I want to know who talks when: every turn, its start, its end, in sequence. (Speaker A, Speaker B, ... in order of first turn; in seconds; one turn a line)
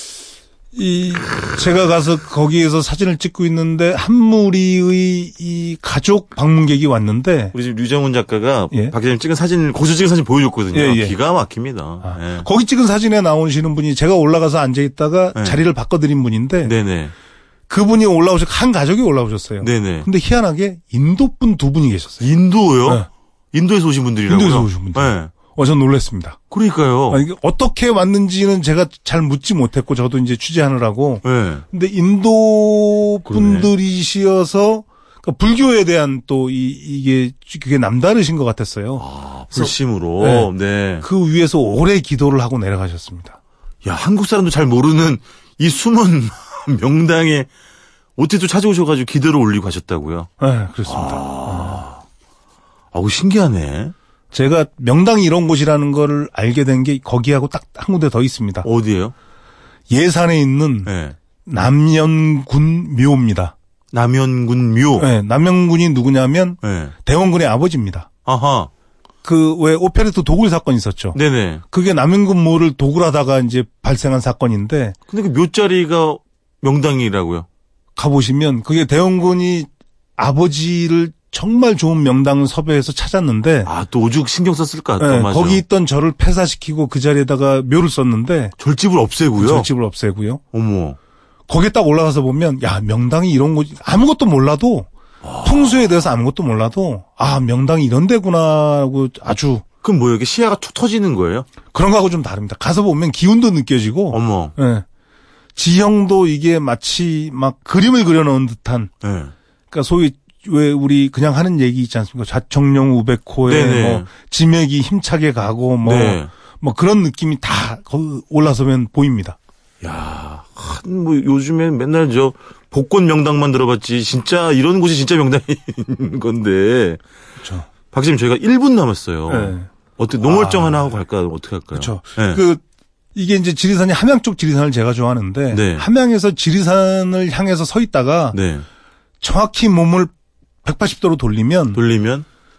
Speaker A: 0.7-7.5
Speaker B: 7.5-12.5
Speaker A: 10.7-11.1
Speaker A: 12.0-16.7
Speaker B: 16.6-17.1
Speaker A: 17.7-22.3
Speaker B: 19.6-20.1
Speaker B: 22.2-25.3
Speaker A: 24.3-26.4
Speaker B: 26.5-27.2
Speaker A: 27.1-39.0
Speaker B: 31.2-31.6
Speaker B: 33.2-33.7
Speaker B: 39.0-41.0
Speaker A: 39.5-43.4
Speaker B: 43.8-47.5
Speaker B: 48.2-50.3
Speaker A: 50.4-51.8
Speaker B: 50.9-52.0
Speaker B: 52.9-53.9
Speaker A: 54.3-58.7
Speaker B: 58.6-59.1
Speaker A: 59.9-60.9
Speaker B: 60.8-61.1
Speaker A: 61.5-63.5
Speaker B: 63.9-65.1
Speaker A: 65.0-68.1
Speaker B: 66.6-66.9
Speaker B: 68.2-68.7
Speaker A: 69.2-71.2
Speaker B: 71.1-71.6
Speaker A: 71.7-75.0
Speaker B: 75.1-77.5
Speaker A: 78.0-83.7
Speaker B: 83.6-85.6
Speaker A: 85.0-88.5
Speaker B: 88.6-89.7
Speaker A: 89.4-90.4
Speaker B: 90.5-91.0
Speaker A: 91.5-94.9
Speaker B: 95.2-95.9
Speaker A: 95.4-99.6
Speaker B: 99.8-101.5
Speaker A: 101.7-104.8
Speaker B: 104.1-104.5
Speaker A: 105.5-108.9
Speaker B: 109.0-109.3
Speaker A: 109.7-119.4
Speaker B: 113.5-114.1
Speaker B: 115.8-116.3
Speaker B: 119.8-127.0
Speaker A: 127.4-127.7
Speaker B: 127.9-132.4
Speaker A: 129.3-129.7
Speaker A: 130.2-130.8
Speaker A: 131.7-132.6
Speaker A: 133.1-138.4
Speaker B: 135.5-135.9
Speaker B: 138.3-138.7
Speaker A: 139.2-140.1
Speaker A: 140.6-141.8
Speaker B: 141.7-142.2